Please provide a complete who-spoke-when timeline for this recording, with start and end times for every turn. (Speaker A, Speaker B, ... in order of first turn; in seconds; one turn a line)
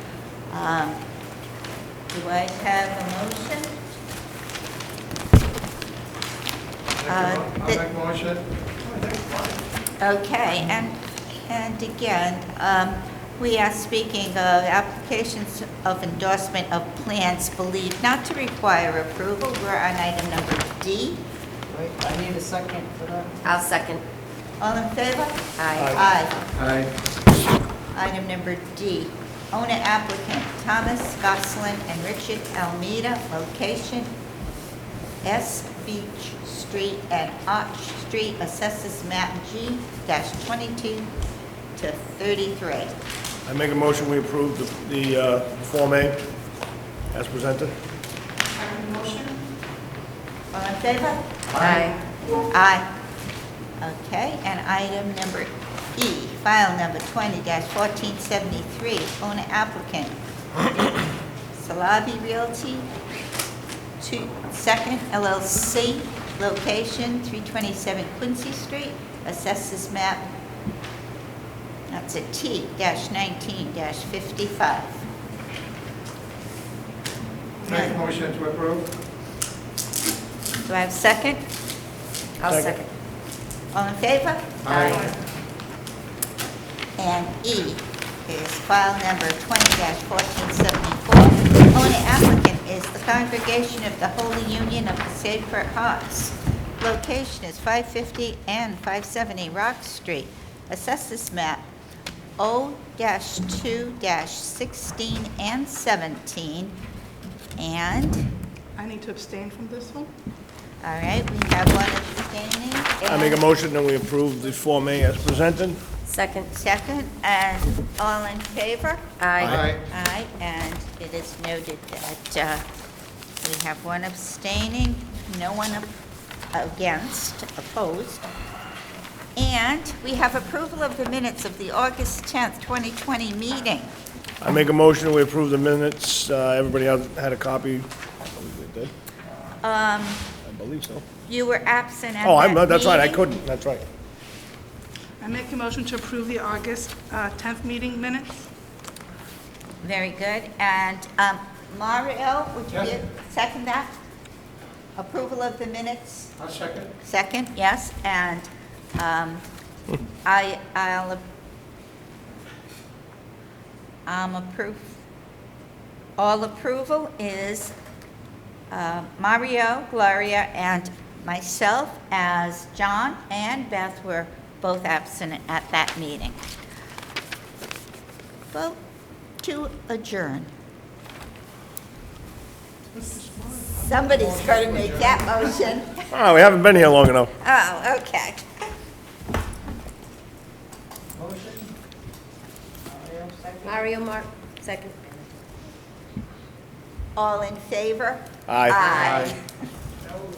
Speaker A: 0.5-1.0
Speaker A: 2.1-3.8
Speaker B: 7.0-9.6
Speaker A: 7.1-7.8
Speaker A: 10.0-21.2
Speaker C: 21.7-23.4
Speaker D: 23.4-24.0
Speaker A: 24.6-26.4
Speaker D: 25.6-26.0
Speaker E: 25.8-26.0
Speaker B: 26.6-26.9
Speaker A: 27.9-34.1
Speaker A: 35.2-41.1
Speaker A: 41.8-43.0
Speaker E: 43.5-46.2
Speaker E: 47.1-47.8
Speaker F: 48.5-49.4
Speaker A: 50.5-51.6
Speaker D: 51.5-52.0
Speaker A: 52.4-52.9
Speaker A: 53.8-60.1
Speaker A: 61.5-62.9
Speaker A: 64.0-70.3
Speaker A: 71.9-75.1
Speaker A: 77.7-78.0
Speaker B: 77.7-78.9
Speaker A: 80.7-81.4
Speaker D: 82.4-82.9
Speaker E: 82.5-82.8
Speaker A: 83.7-84.9
Speaker B: 84.6-85.1
Speaker D: 84.7-85.1
Speaker A: 87.0-101.7
Speaker A: 102.4-106.8
Speaker A: 107.6-108.3
Speaker F: 108.8-110.1
Speaker A: 110.8-113.4
Speaker E: 113.0-115.8
Speaker D: 116.1-116.5
Speaker A: 116.5-122.7
Speaker D: 119.2-119.6
Speaker B: 119.4-119.8
Speaker A: 123.4-125.9
Speaker A: 126.5-128.3
Speaker A: 129.4-133.9
Speaker E: 134.4-138.9
Speaker A: 139.6-140.2
Speaker E: 140.4-141.1
Speaker A: 141.2-143.3
Speaker E: 142.2-143.8
Speaker F: 145.2-148.4
Speaker A: 149.8-153.9
Speaker A: 155.0-156.4
Speaker B: 156.4-156.9
Speaker A: 157.0-159.4
Speaker A: 160.2-161.2
Speaker A: 164.1-165.0
Speaker A: 166.2-167.8
Speaker A: 168.7-176.4
Speaker A: 178.5-178.8
Speaker A: 179.4-180.5
Speaker B: 182.9-185.2
Speaker A: 183.8-186.1
Speaker E: 186.1-187.3
Speaker A: 187.4-188.4
Speaker C: 191.2-191.7
Speaker C: 192.9-193.8
Speaker D: 193.6-195.0
Speaker A: 197.2-199.4
Speaker E: 198.5-199.3
Speaker B: 198.9-199.3